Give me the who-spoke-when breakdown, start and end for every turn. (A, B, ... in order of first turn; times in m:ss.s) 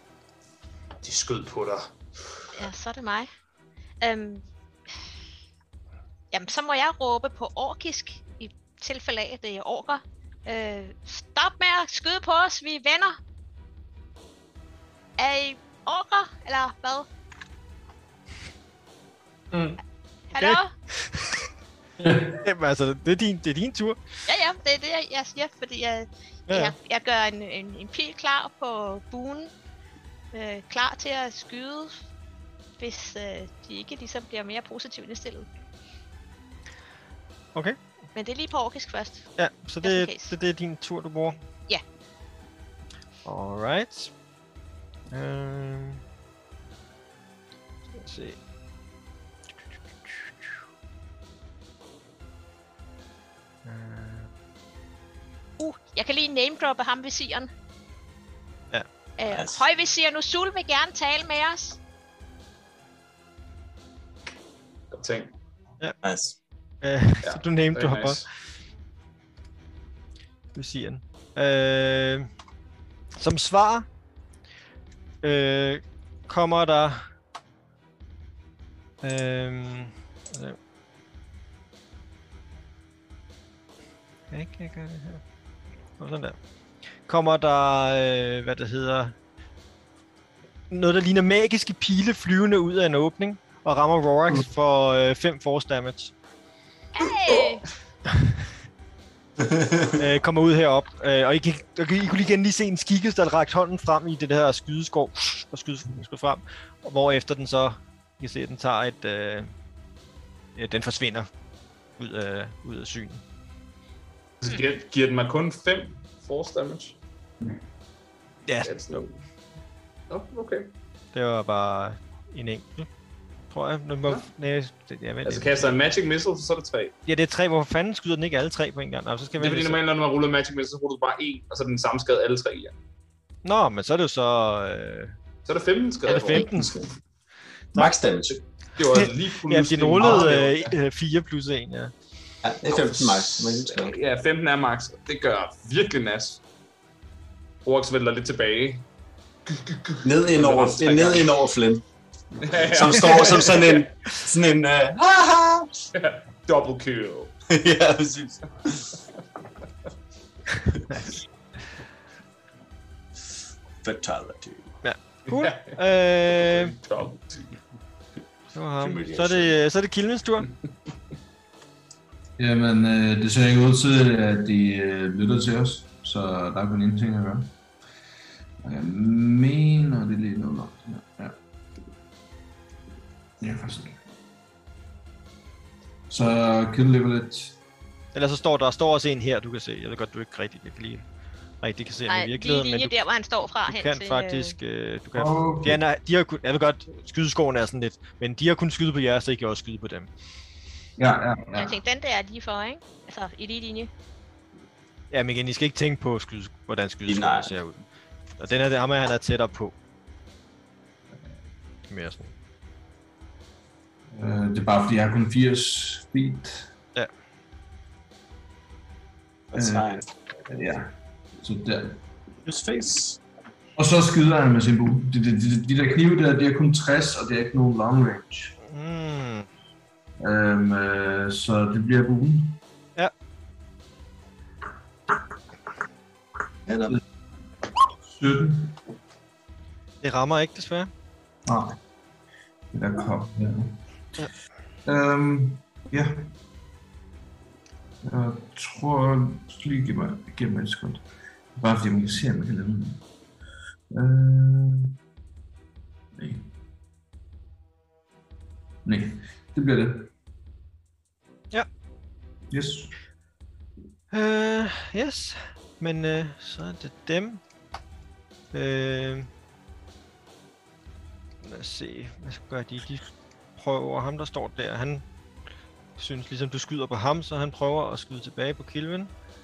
0:01.0-0:02.5 A
0:02.5-0:03.3 B
0:04.0-0:04.5 B
0:06.3-0:13.2 B
0:15.2-0:17.1 B
0:20.3-0:20.7 B
0:20.4-0:21.4 C
0:22.0-0:22.4 D
0:22.4-0:24.0 C
0:24.3-0:29.5 B
0:26.5-0:26.7 C
0:30.3-0:32.0 B
0:32.8-0:35.5 B
0:38.2-0:39.3 B
0:39.4-0:41.4 C
0:39.8-0:40.3 B
0:43.2-0:44.1 C
0:45.1-0:46.0 C
0:48.0-0:48.4 C
0:53.6-0:54.3 C
0:55.6-0:57.5 B
0:59.2-1:01.8 B
0:59.3-0:59.6 E
1:04.9-1:05.3 A
1:06.0-1:06.4 E
1:06.8-1:08.2 C
1:07.2-1:08.2 A
1:10.6-1:12.3 C
1:13.2-1:13.9 C
1:15.2-1:17.0 C
1:19.0-1:20.6 C
1:24.3-1:25.2 C
1:26.0-1:26.4 C
1:27.1-1:29.1 C
1:30.7-1:36.1 C
1:36.9-1:37.7 B
1:39.4-1:40.0 E
1:40.0-1:49.5 C
1:50.6-1:51.3 C
1:52.0-1:53.2 C
1:54.4-1:57.0 A
1:58.5-1:58.7 C
1:58.6-1:59.2 A
2:00.1-2:00.7 A
2:01.1-2:02.9 C
2:03.5-2:05.8 C
2:05.2-2:07.0 A
2:07.1-2:09.8 C
2:09.4-2:12.7 A
2:13.4-2:15.1 C
2:15.5-2:16.7 A
2:16.1-2:16.8 C
2:16.5-2:16.9 E
2:17.8-2:18.4 E
2:18.8-2:20.7 A
2:18.8-2:21.9 C
2:22.4-2:24.0 E
2:22.7-2:26.4 A
2:27.6-2:28.8 A
2:29.5-2:31.3 A
2:30.0-2:31.8 E
2:32.4-2:33.9 A
2:32.5-2:35.7 E
2:35.9-2:37.3 A
2:37.5-2:38.9 E
2:43.8-2:44.7 E
2:44.8-2:46.8 C
2:45.3-2:45.8 A
2:46.3-2:47.6 A
2:48.5-2:50.5 C
2:48.8-2:49.6 E
2:52.4-2:57.5 D
2:58.6-3:01.4 D
3:03.4-3:04.0 D
3:06.1-3:07.6 D
3:08.2-3:11.0 C
3:11.6-3:13.0 C
3:12.1-3:14.6 B
3:13.7-3:20.1 C
3:15.2-3:15.8 D
3:21.0-3:21.8 D
3:21.6-3:23.9 B
3:25.1-3:27.8 C
3:27.1-3:27.5 E
3:28.4-3:29.7 C
3:31.9-3:32.3 C
3:34.1-3:36.7 D
3:39.5-3:40.1 E
3:39.6-3:39.9 D
3:40.5-3:42.0 D
3:42.5-3:43.2 E
3:43.8-3:48.6 D
3:48.7-3:49.5 C
3:50.2-3:52.6 D
3:56.7-3:56.9 E
3:58.1-3:58.8 D
4:00.0-4:00.9 C
4:02.7-4:03.8 D
4:04.9-4:06.3 D
4:08.0-4:11.0 D
4:11.6-4:13.0 D
4:13.9-4:15.0 D
4:16.2-4:16.5 D
4:18.8-4:20.1 D
4:22.5-4:22.9 D
4:24.1-4:27.4 C
4:28.5-4:29.3 C
4:31.4-4:33.1 C
4:33.6-4:35.0 C
4:36.0-4:39.1 C